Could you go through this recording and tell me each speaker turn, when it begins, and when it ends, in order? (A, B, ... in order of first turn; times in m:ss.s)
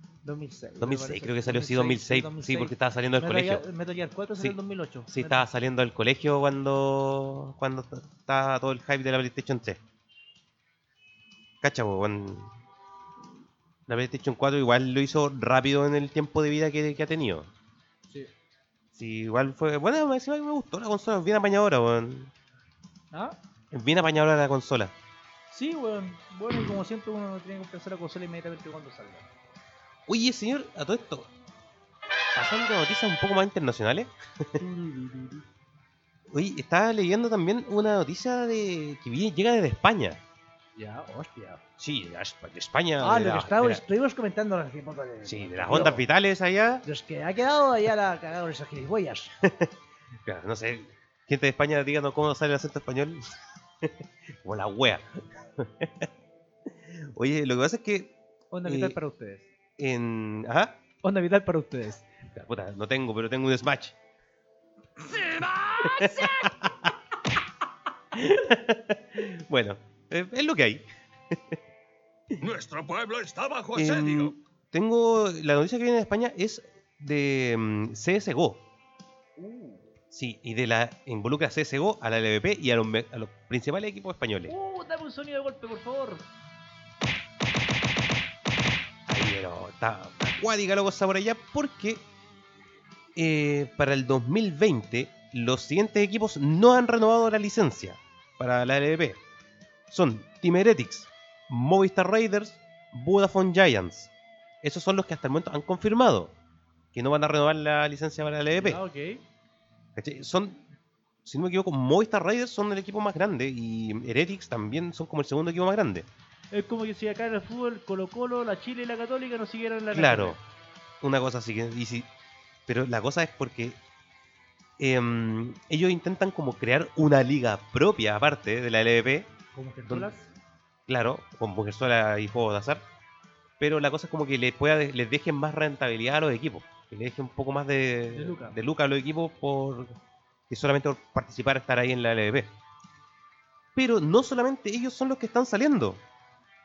0:00.2-0:05.5 A
0:00.8-0:03.6 B
0:05.1-0:09.8 B
0:11.6-0:12.5 B
0:13.9-0:17.5 B
0:18.9-0:22.3 B
0:23.1-0:23.4 A
0:23.7-0:24.9 B
0:25.5-0:29.3 A
0:30.1-0:31.3 B
0:32.3-0:34.7 B
0:34.6-0:35.4 A
0:36.3-0:40.2 B
0:40.8-0:41.6 A
0:41.8-0:43.8 B
0:43.0-0:46.0 A
0:45.2-0:46.8 B
0:46.8-0:49.4 A
0:49.4-0:49.7 B
0:50.2-0:56.1 B
0:56.7-0:59.0 B
0:58.5-0:59.5 A
0:59.8-1:00.8 B
1:01.0-1:02.1 A
1:02.3-1:04.0 B
1:05.1-1:06.2 A
1:05.8-1:06.9 B
1:08.1-1:11.6 B
1:12.4-1:14.4 C
1:13.7-1:18.6 B
1:19.4-1:19.9 A
1:20.1-1:24.5 B
1:24.5-1:26.2 A
1:29.1-1:32.0 B
1:33.1-1:39.2 B
1:39.9-1:46.3 B
1:46.9-1:48.8 B
1:48.6-1:49.2 A
1:49.9-1:50.6 B
1:51.2-1:56.1 B
1:56.5-2:00.4 A
1:59.9-2:00.4 B
2:01.0-2:02.1 B
2:02.7-2:03.8 B
2:04.8-2:09.3 B
2:09.5-2:10.3 A
2:10.9-2:12.8 B
2:13.6-2:20.0 B
2:18.1-2:18.6 A
2:20.5-2:22.5 B
2:23.7-2:26.0 B